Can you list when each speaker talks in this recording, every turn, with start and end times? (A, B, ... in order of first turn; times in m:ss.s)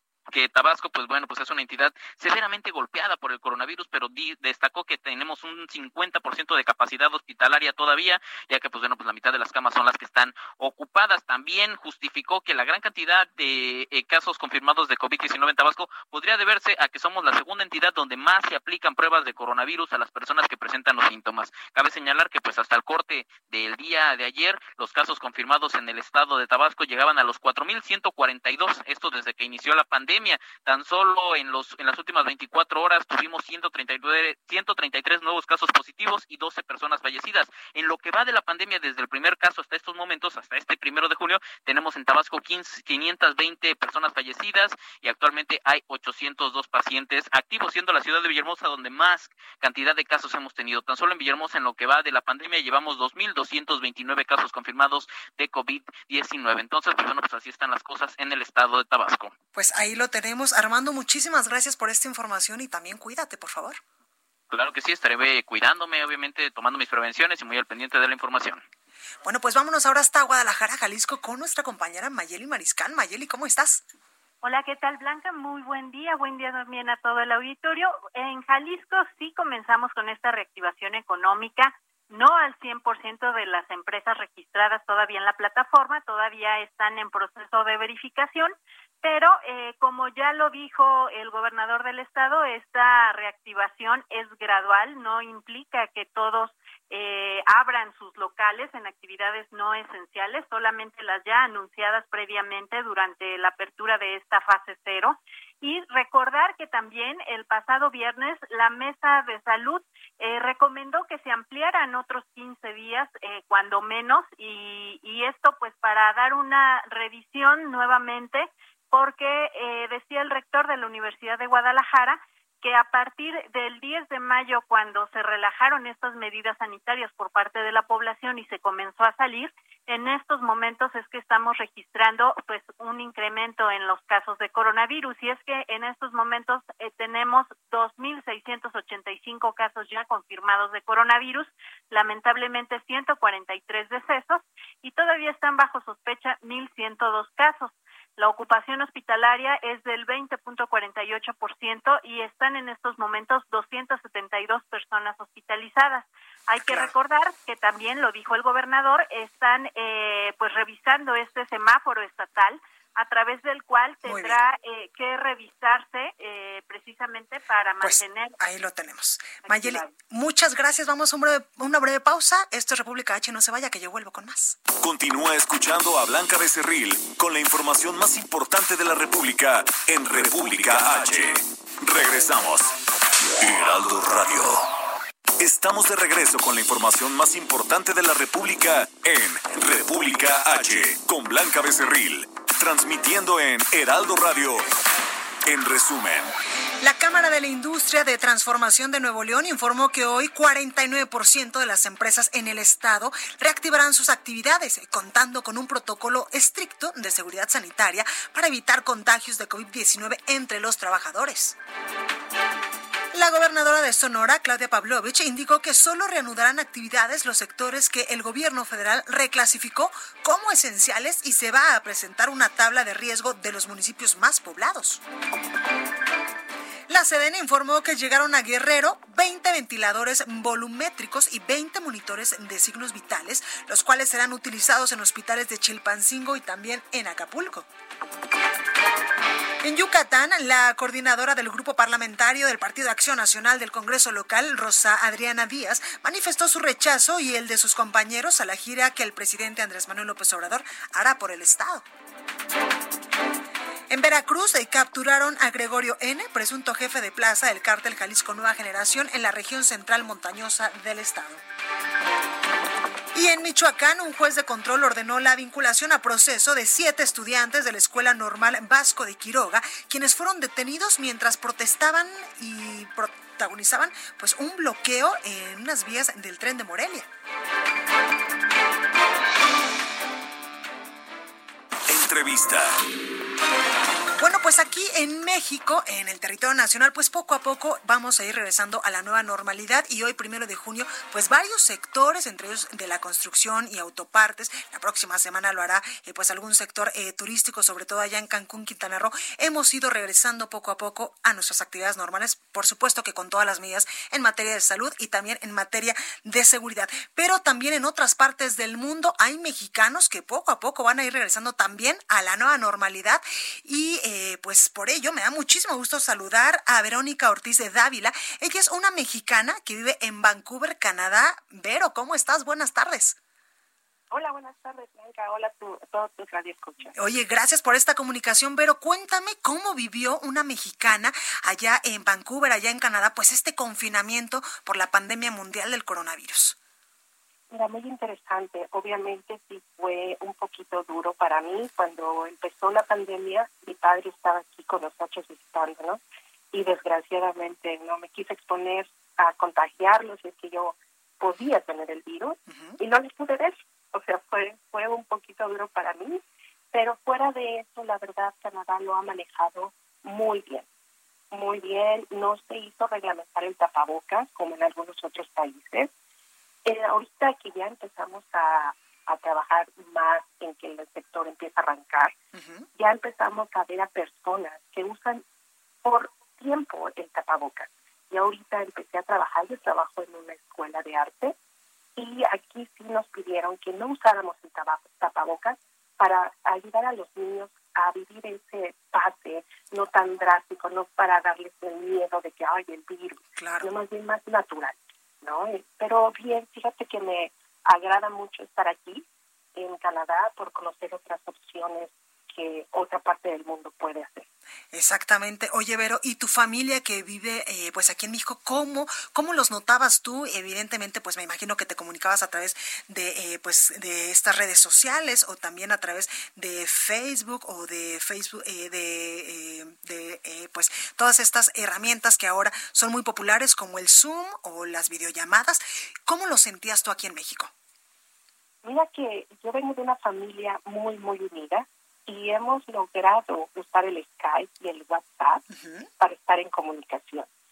0:00.3-0:59.3 A
0:59.5-1:03.8 B
1:04.5-1:08.6 A
1:09.2-1:13.8 B
1:14.4-2:48.4 C
2:36.6-2:36.9 B
2:44.0-2:44.4 B
2:47.8-2:54.6 B
2:49.4-2:49.9 C
2:54.7-3:02.8 D
3:03.4-3:04.7 D
3:05.4-3:14.6 D
3:15.4-3:16.3 D
3:16.8-3:31.6 B
3:33.1-3:45.0 B
3:46.9-3:57.7 B
3:59.6-4:11.8 B
4:13.9-4:21.4 B
4:23.1-4:37.1 B
4:41.9-4:42.8 D
4:44.2-5:23.2 B
5:24.1-5:26.9 E
5:27.0-5:36.6 B
5:37.5-5:46.0 E
5:46.5-5:56.2 E
5:52.5-5:52.8 B
5:56.7-6:00.6 E
6:01.3-6:05.9 E
6:06.6-6:12.2 E
6:12.3-6:12.7 B
6:12.7-6:15.2 E
6:15.8-6:21.3 E
6:22.0-6:44.2 E
6:33.4-6:33.7 B
6:44.7-7:07.5 B
7:08.6-7:15.4 E
7:15.5-7:15.8 B
7:16.0-7:17.3 E